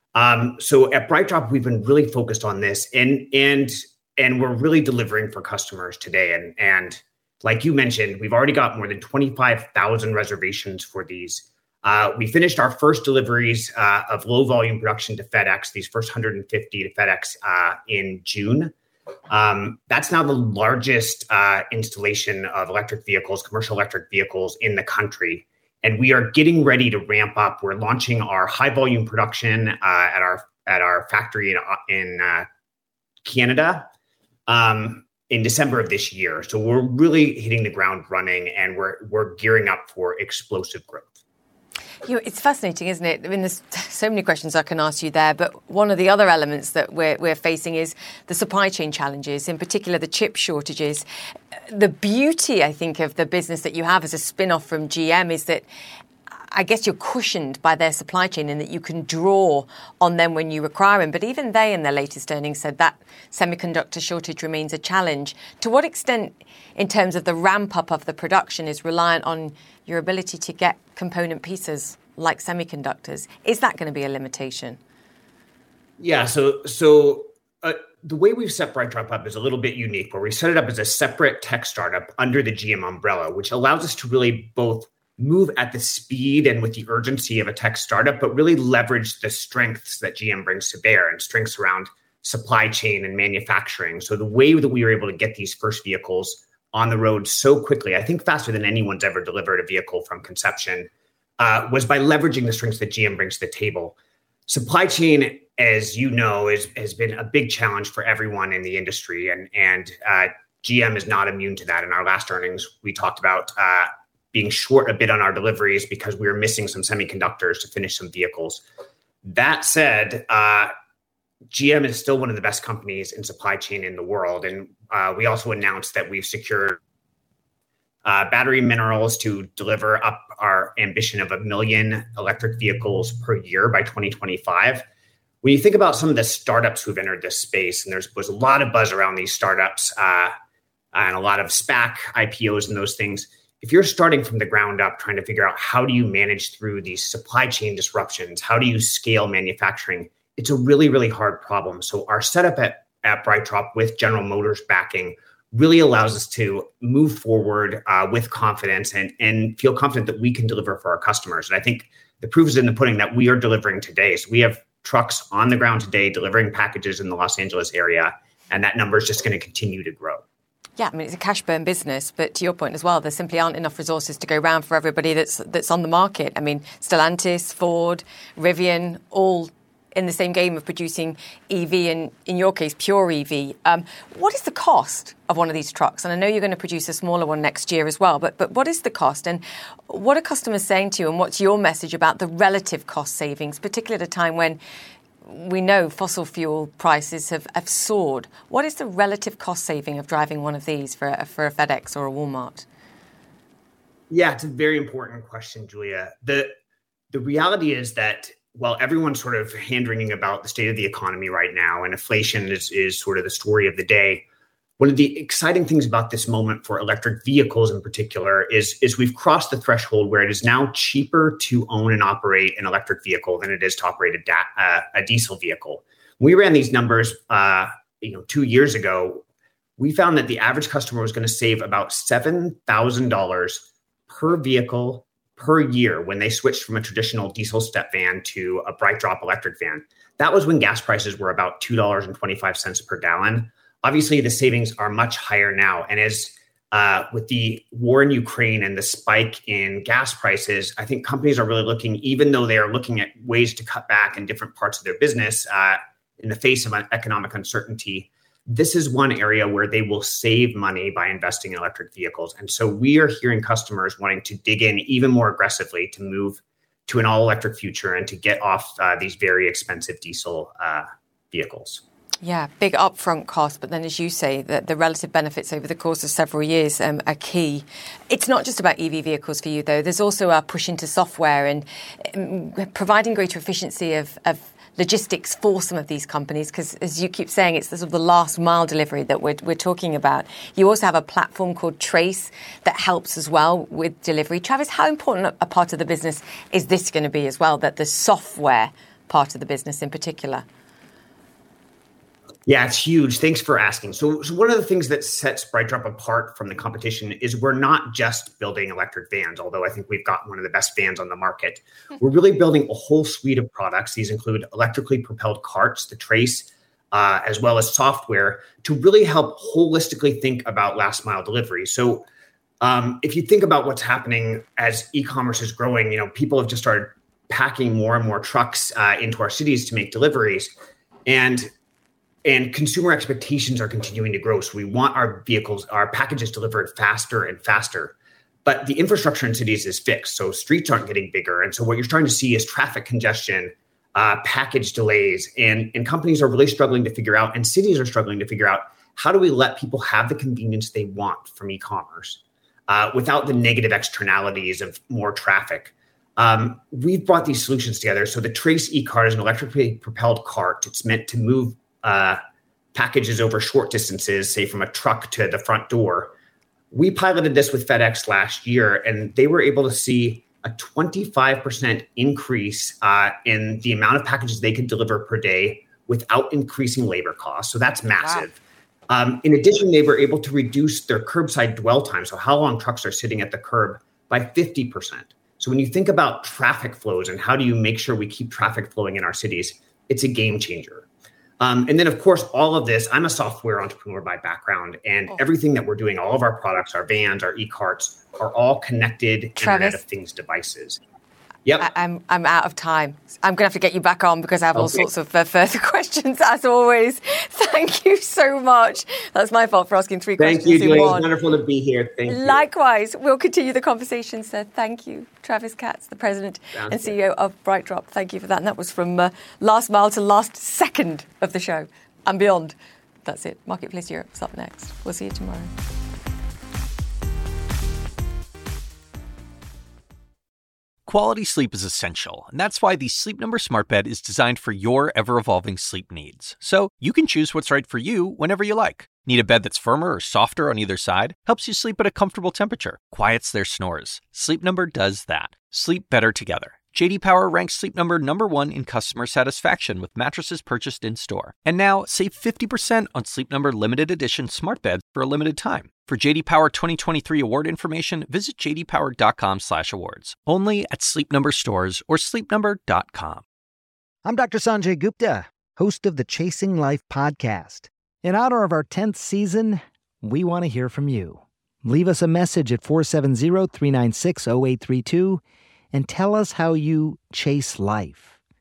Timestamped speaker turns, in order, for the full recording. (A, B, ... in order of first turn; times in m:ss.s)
0:00.1-0:18.7 A
0:19.3-0:32.5 A
0:33.2-0:33.9 A
0:34.5-0:41.2 A
0:42.0-0:55.6 B
0:56.5-1:14.8 B
1:16.0-1:43.9 A
1:44.5-1:58.6 A
1:59.2-2:00.7 A
2:01.5-2:06.8 A
2:08.0-2:14.8 A
2:15.4-2:20.3 A
2:20.9-2:50.2 A
2:50.8-3:14.6 B
3:15.2-3:22.6 B
3:24.1-3:26.5 A
3:27.1-3:34.2 A
3:34.8-3:49.2 A
3:49.8-4:31.8 A
4:32.2-5:00.4 B
5:02.5-5:22.0 A
5:22.6-5:30.5 A
5:31.0-5:31.5 A
5:32.2-5:37.9 A
5:38.4-6:02.2 A
6:02.7-6:06.1 A
6:06.7-6:18.4 A
6:18.0-6:18.2 B
6:18.9-6:30.8 A
6:31.4-6:40.8 A
6:39.4-6:39.8 B
6:41.4-6:41.7 A
6:41.6-6:51.1 B
6:44.5-6:44.8 A
6:50.2-6:52.4 A
6:52.0-7:05.5 B
6:56.6-6:57.0 A
7:10.8-7:43.2 C
7:44.0-7:55.2 D
7:55.7-7:58.1 D